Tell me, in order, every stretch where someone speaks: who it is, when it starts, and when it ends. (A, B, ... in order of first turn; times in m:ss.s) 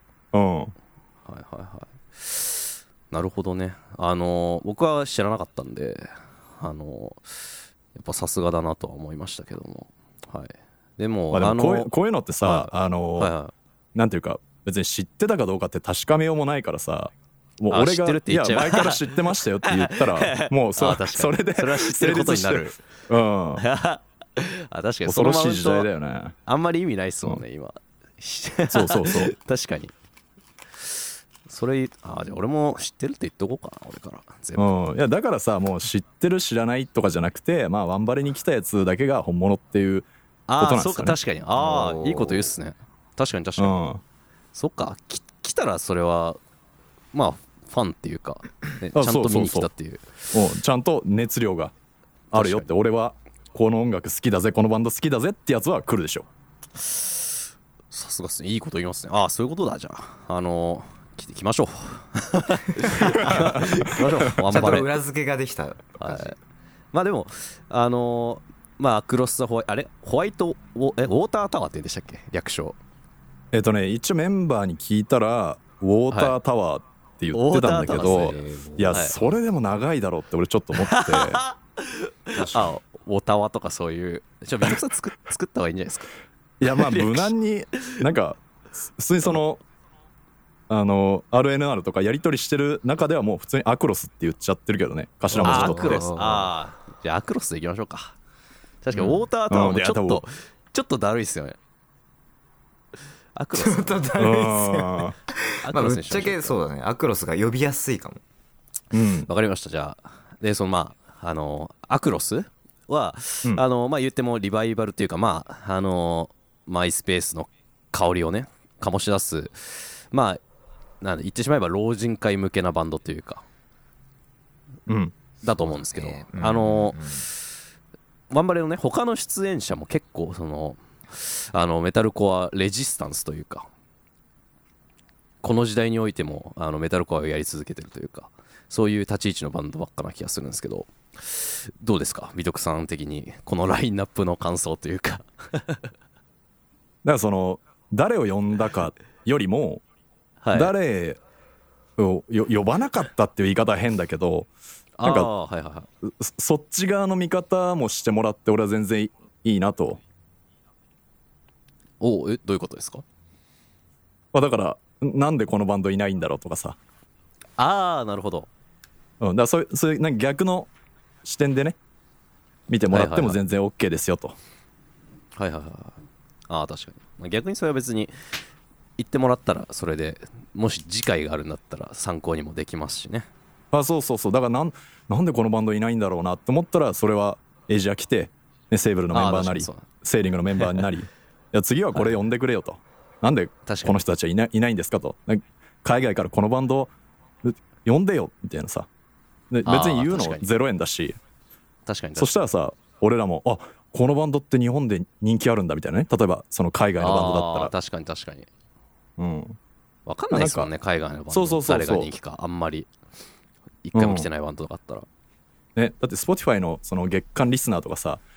0:00.3-0:00.7 A
0:01.2-0:13.5 B
0:11.3-0:13.3 A
0:14.0-0:23.6 A
0:17.7-0:22.8 B
0:23.6-0:25.9 B
0:25.0-0:26.4 A
0:26.5-0:29.9 B
0:28.7-0:29.3 A
0:30.9-0:34.7 B
0:34.6-0:40.1 A
0:40.5-0:43.8 B
0:40.6-0:41.2 A
0:41.6-0:42.5 C
0:43.6-0:44.0 A
0:44.5-0:46.4 B
0:47.1-0:50.3 B
0:48.9-0:49.7 A
0:50.3-0:51.7 A
0:52.3-0:56.3 A
0:52.3-0:52.7 B
0:56.8-0:57.2 B
0:57.9-1:04.9 B
1:03.3-1:03.8 A
1:04.4-1:06.4 C
1:06.0-1:06.4 B
1:06.9-1:12.8 B
1:13.5-1:21.4 A
1:16.1-1:16.4 B
1:17.3-1:19.2 B
1:18.0-1:19.3 C
1:20.8-1:26.1 B
1:22.4-1:22.7 C
1:26.6-1:29.6 A
1:26.6-1:28.0 B
1:30.7-1:36.1 A
1:35.3-1:36.5 C
1:35.4-1:38.2 B
1:38.8-1:41.6 B
1:39.5-1:40.2 A
1:43.4-1:44.1 B
1:43.6-1:48.2 C
1:44.2-1:45.2 A
1:45.6-1:46.6 B
1:48.9-1:49.3 A
1:49.3-2:00.4 B
2:01.0-2:03.4 B
2:04.9-2:05.1 A
2:05.4-2:07.3 B
2:05.6-2:07.3 C
2:08.3-2:13.7 B
2:15.4-2:25.9 B
2:27.0-2:29.8 A
2:30.4-2:30.7 B
2:30.5-2:31.2 A
2:32.0-2:34.5 A
2:35.0-2:35.9 B
2:35.0-2:35.3 A
2:36.0-2:40.0 A
2:42.0-2:43.0 B
2:44.3-2:46.8 A
2:47.6-2:48.5 B
2:49.2-2:50.7 A
2:51.2-2:51.8 A
2:52.7-2:54.4 A
2:52.9-2:53.4 B
2:55.4-2:58.3 B
2:59.0-3:03.3 B
3:03.7-3:16.9 A
3:09.1-3:09.9 B
3:10.6-3:10.9 B
3:13.7-3:14.0 B
3:17.4-3:18.9 A
3:19.5-3:21.2 A
3:19.6-3:20.5 B
3:21.9-3:22.4 B
3:22.2-3:27.7 A
3:27.0-3:28.5 B
3:29.2-3:29.6 A
3:30.1-3:32.9 B
3:30.3-3:30.7 A
3:31.3-3:32.1 A
3:33.8-3:35.1 B
3:33.9-3:34.3 A
3:35.8-3:38.2 A